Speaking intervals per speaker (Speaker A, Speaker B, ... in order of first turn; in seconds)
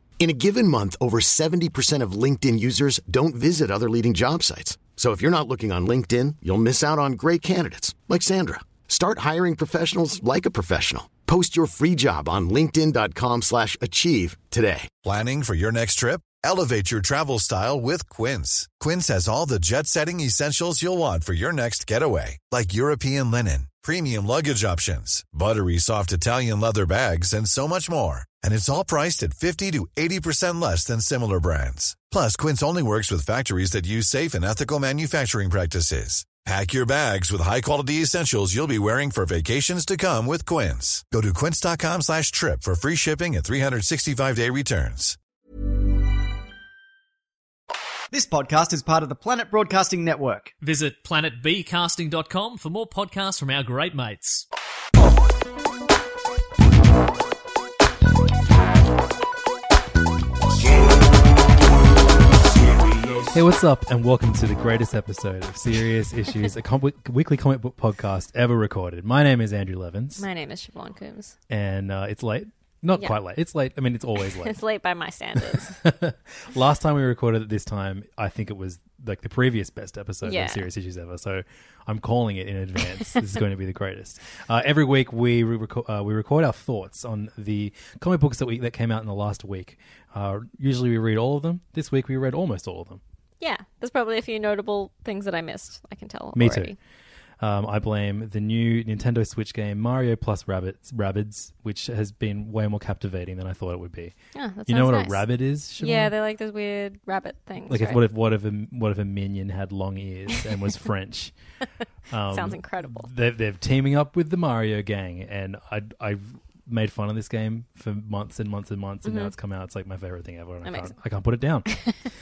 Speaker A: 0.2-14.9
Speaker B: 15.0-45.2
Speaker C: 48.1-50.5
Speaker D: 50.6-54.5
Speaker E: 63.3-70.2, 71.5-74.6, 75.4-93.0, 96.4-96.8, 97.4-104.2, 104.7-106.1, 107.7-111.3, 112.1-121.7
Speaker F: 70.2-71.3, 74.4-75.8, 80.2-80.7, 93.4-96.8, 104.3-105.2, 105.8-108.0, 112.3-113.1, 119.0-119.3, 120.7-121.0, 121.7-122.1